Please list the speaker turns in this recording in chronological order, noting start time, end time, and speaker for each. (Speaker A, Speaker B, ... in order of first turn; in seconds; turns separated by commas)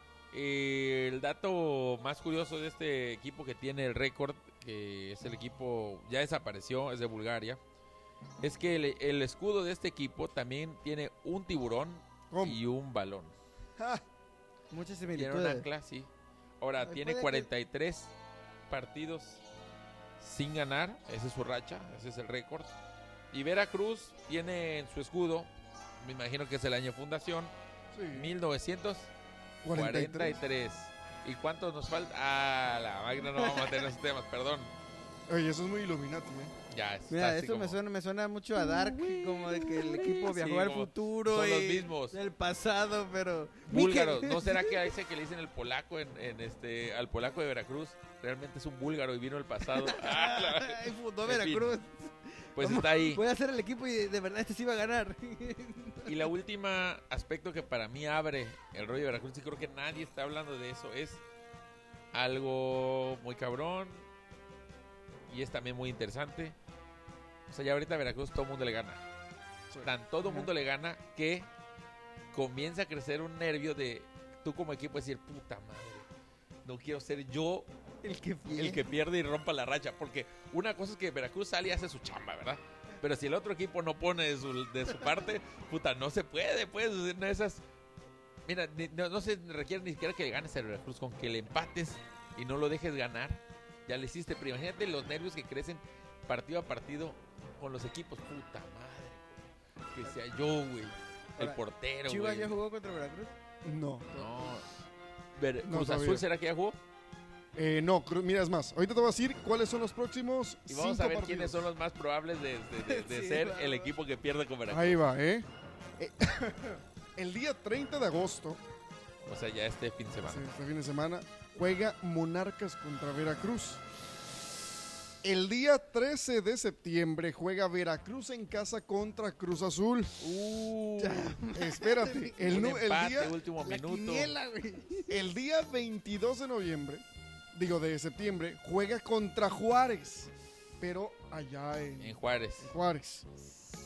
Speaker A: 0.3-7.6, Speaker A: 8.4-13.3, Speaker B: 12.3-12.6, Speaker B: 13.8-14.0, Speaker C: 14.7-15.7, Speaker A: 15.2-16.1, Speaker A: 16.6-18.1, Speaker C: 16.8-17.5, Speaker A: 18.7-19.4, Speaker A: 20.2-22.7, Speaker A: 23.3-27.5, Speaker B: 27.9-28.3, Speaker A: 28.1-29.1, Speaker B: 29.6-30.4, Speaker A: 29.7-34.7, Speaker C: 33.3-33.9, Speaker B: 35.3-36.5, Speaker A: 36.7-37.8, Speaker C: 37.1-44.8, Speaker B: 38.7-39.4, Speaker A: 39.6-42.2, Speaker A: 43.7-51.7, Speaker C: 49.7-56.3, Speaker A: 52.6-53.2, Speaker A: 56.1-61.2, Speaker A: 62.1-64.0, Speaker A: 65.3-66.6, Speaker A: 67.5-69.0, Speaker A: 69.8-71.5, Speaker A: 72.3-76.1, Speaker A: 76.7-77.7, Speaker C: 78.0-78.9, Speaker A: 78.5-87.6, Speaker A: 88.5-102.6, Speaker C: 101.4-103.3, Speaker B: 103.6-104.4, Speaker A: 104.1-104.7, Speaker A: 105.4-106.8, Speaker B: 105.6-106.3, Speaker B: 107.5-111.7, Speaker A: 110.7-115.0, Speaker C: 112.8-113.9, Speaker B: 114.7-118.6, Speaker A: 119.2-120.5, Speaker B: 120.2-123.8, Speaker B: 125.2-130.3, Speaker A: 130.2-131.4, Speaker C: 131.0-132.5, Speaker B: 131.5-133.4, Speaker A: 132.4-134.3, Speaker C: 133.6-135.1, Speaker B: 135.1-143.3, Speaker A: 142.0-142.7